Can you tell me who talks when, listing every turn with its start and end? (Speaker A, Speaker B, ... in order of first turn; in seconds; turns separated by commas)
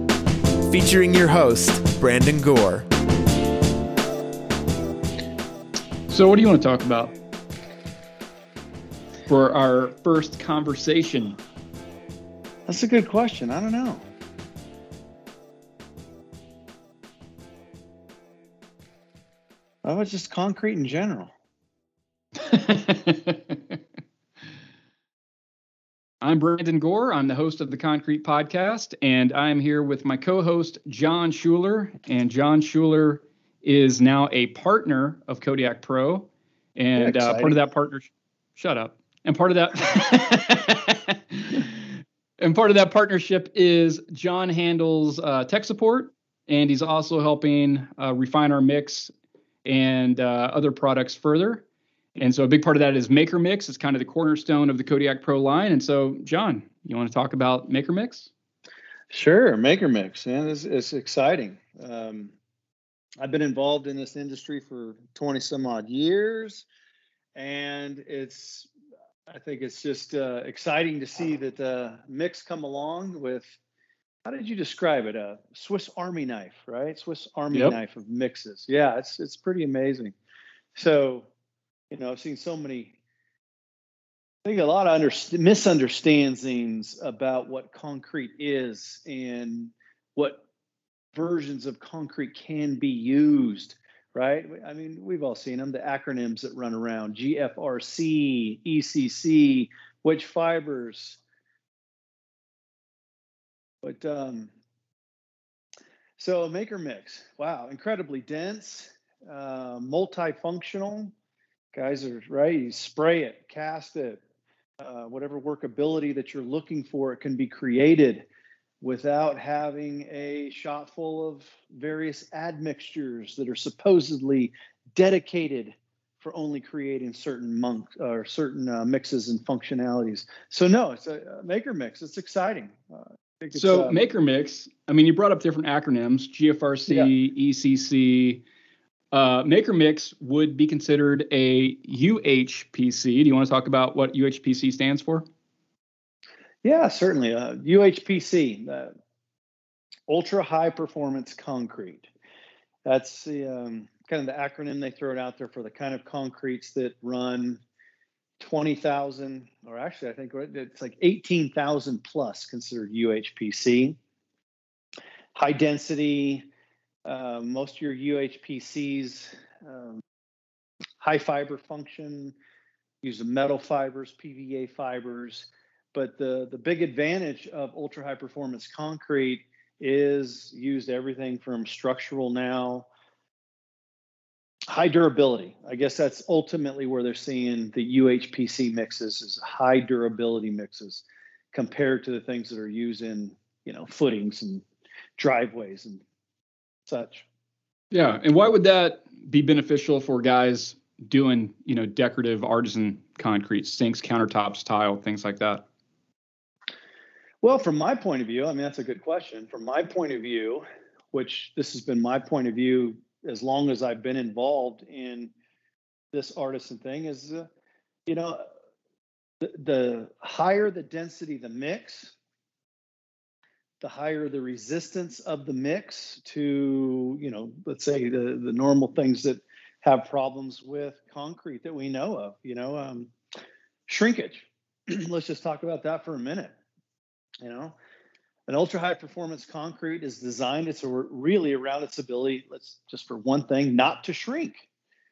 Speaker A: 0.7-2.9, Speaker B: 6.1-7.1, Speaker B: 9.3-11.4, Speaker C: 12.7-14.0, Speaker C: 19.8-21.3, Speaker B: 22.4-23.8, Speaker B: 26.2-41.8, Speaker C: 37.0-37.5, Speaker B: 42.4-49.1, Speaker B: 49.6-51.6, Speaker B: 52.1-58.3, Speaker C: 59.1-62.3, Speaker C: 63.2-66.6, Speaker C: 67.3-68.7, Speaker C: 69.3-73.5, Speaker C: 74.2-80.1, Speaker B: 77.5-77.8, Speaker C: 80.7-81.3, Speaker C: 81.9-83.0, Speaker C: 84.4-90.4, Speaker C: 91.1-101.2, Speaker C: 103.8-104.5, Speaker C: 106.2-111.1, Speaker C: 111.7-114.2, Speaker C: 114.8-118.3, Speaker C: 118.8-133.9, Speaker B: 133.5-138.4, Speaker B: 139.1-145.3, Speaker C: 146.6-148.9, Speaker C: 150.1-152.1, Speaker C: 152.8-157.6, Speaker C: 158.4-164.0, Speaker C: 165.3-166.5, Speaker C: 167.1-170.0, Speaker C: 171.0-172.3, Speaker C: 173.0-182.9, Speaker C: 184.7-194.6, Speaker C: 195.2-196.0, Speaker C: 196.9-197.2, Speaker B: 197.9-205.7, Speaker C: 207.4-215.3, Speaker C: 216.1-217.5, Speaker C: 218.1-218.4, Speaker C: 219.4-222.1, Speaker C: 223.8-233.1, Speaker C: 233.9-236.5, Speaker C: 237.4-237.7, Speaker C: 238.5-244.6